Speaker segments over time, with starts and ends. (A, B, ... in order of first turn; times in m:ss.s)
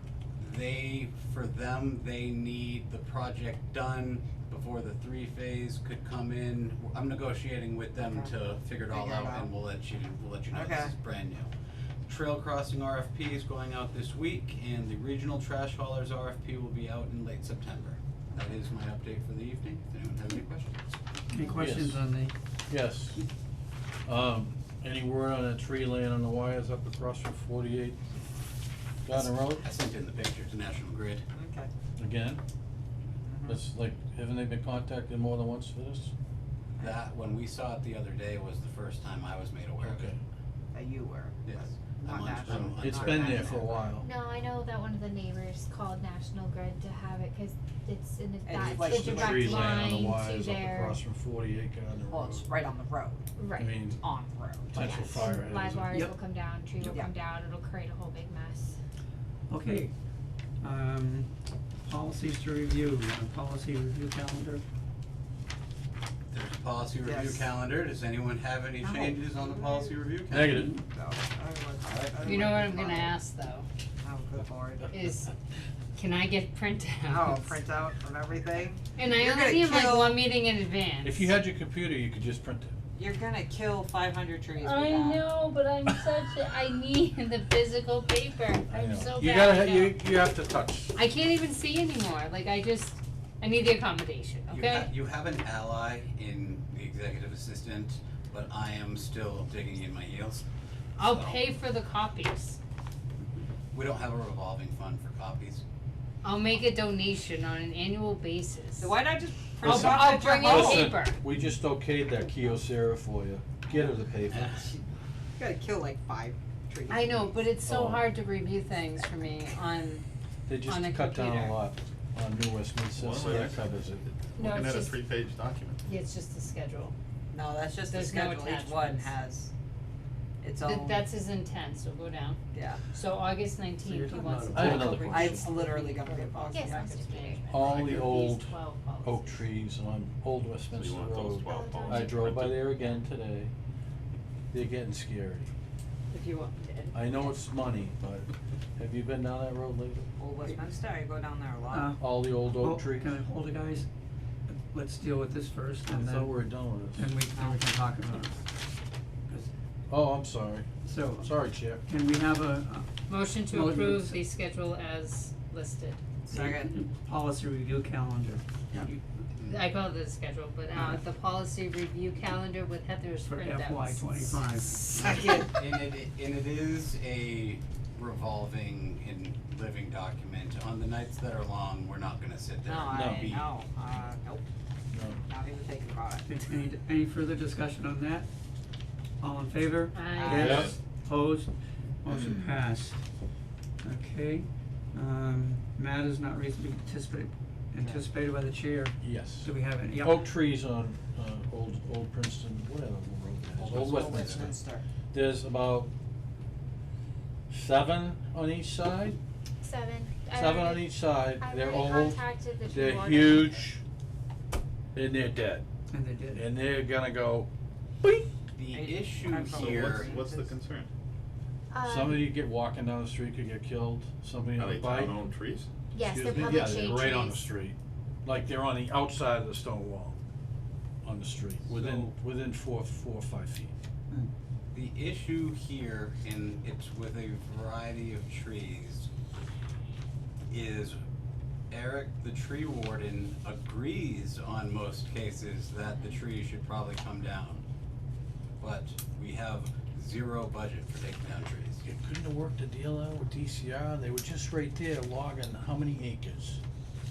0:00.4-0:11.5 A
0:08.0-0:09.5 B
0:10.5-0:10.9 B
0:12.0-0:20.9 A
0:21.3-0:22.3 C
0:21.5-0:22.0 D
0:22.7-0:23.2 D
0:24.0-0:28.0 D
0:29.0-0:29.6 D
0:29.1-0:31.2 A
0:31.3-0:31.7 B
0:32.0-0:32.4 D
0:33.2-0:33.6 B
0:33.5-0:36.1 D
0:36.8-0:40.1 A
0:39.8-0:40.2 D
0:40.7-0:43.8 B
0:41.4-0:43.6 A
0:42.5-0:44.1 D
0:44.0-0:51.0 E
0:48.4-0:49.9 B
0:48.8-0:52.5 D
0:52.1-0:55.3 B
0:53.4-0:53.8 E
0:53.6-0:54.0 D
0:54.7-0:55.9 D
0:55.1-0:58.8 E
0:56.8-0:57.1 B
0:59.5-0:59.9 C
1:00.6-1:01.3 C
1:01.8-1:04.6 C
1:06.3-1:10.6 A
1:07.0-1:07.5 B
1:08.8-1:10.0 B
1:10.3-1:10.7 D
1:10.5-1:10.8 C
1:10.7-1:13.2 B
1:12.2-1:13.7 F
1:14.0-1:15.0 B
1:14.9-1:15.3 F
1:16.0-1:17.6 F
1:17.1-1:20.2 B
1:18.9-1:21.3 F
1:21.0-1:22.7 D
1:22.9-1:25.3 B
1:24.6-1:30.0 F
1:28.7-1:31.0 D
1:30.9-1:34.9 F
1:34.5-1:40.4 A
1:41.0-1:42.6 F
1:41.0-1:41.4 A
1:43.7-1:45.6 A
1:46.2-1:49.0 F
1:48.8-1:51.0 B
1:49.6-1:51.2 F
1:49.6-1:54.8 D
1:55.4-1:57.4 B
1:56.9-2:00.0 F
1:57.6-1:58.1 D
2:00.5-2:04.0 D
2:00.6-2:01.6 F
2:02.9-2:05.8 G
2:04.4-2:05.0 F
2:05.8-2:06.9 F
2:07.3-2:09.5 B
2:07.9-2:09.1 F
2:10.4-2:11.0 B
2:10.6-2:12.4 F
2:12.5-2:12.8 B
2:12.9-2:19.4 F
2:13.8-2:15.6 C
2:14.5-2:15.5 D
2:14.6-2:17.7 B
2:16.4-2:17.4 E
2:17.5-2:23.5 D
2:17.6-2:18.0 G
2:20.7-2:22.6 G
2:21.4-2:23.0 E
2:24.5-2:25.5 D
2:26.1-2:27.1 B
2:26.9-2:30.1 D
2:30.2-2:32.0 B
2:31.7-2:33.9 C
2:32.0-2:33.2 D
2:34.5-2:36.4 C
2:35.9-2:37.1 D
2:37.0-2:38.4 C
2:37.4-2:37.6 B
2:39.9-2:41.8 D
2:40.8-2:44.2 C
2:43.1-2:46.0 F
2:46.2-2:46.7 B
2:46.3-2:49.0 C
2:48.7-2:49.6 A
2:49.4-2:54.9 F
2:53.3-2:55.0 C
2:54.9-2:55.7 B
2:55.4-3:03.5 A
3:02.6-3:04.4 B
3:02.9-3:03.5 D
3:04.9-3:05.2 D
3:05.2-3:06.2 B
3:06.2-3:08.3 C
3:09.2-3:13.0 C
3:09.9-3:10.4 F
3:10.1-3:10.7 B
3:10.3-3:10.7 D
3:13.8-3:20.3 C
3:17.8-3:18.0 B
3:19.0-3:24.6 D
3:23.6-3:24.5 A
3:23.6-3:24.8 B
3:25.1-3:25.9 D
3:27.5-3:29.2 D
3:29.6-3:33.6 E
3:30.3-3:33.8 D
3:34.9-3:35.6 D
3:35.9-3:36.4 C
3:36.3-3:37.5 D
3:38.5-3:40.1 A
3:38.7-3:40.6 B
3:39.5-3:40.9 G
3:41.7-3:42.3 E
3:41.8-3:45.2 D
3:44.6-3:45.7 G
3:45.9-3:47.4 E
3:46.1-3:50.2 D
3:51.0-3:53.7 D
3:51.7-3:52.1 A
3:54.7-3:59.1 A
4:00.5-4:01.0 A
4:01.7-4:07.6 A
4:08.6-4:11.8 A
4:11.8-4:16.6 D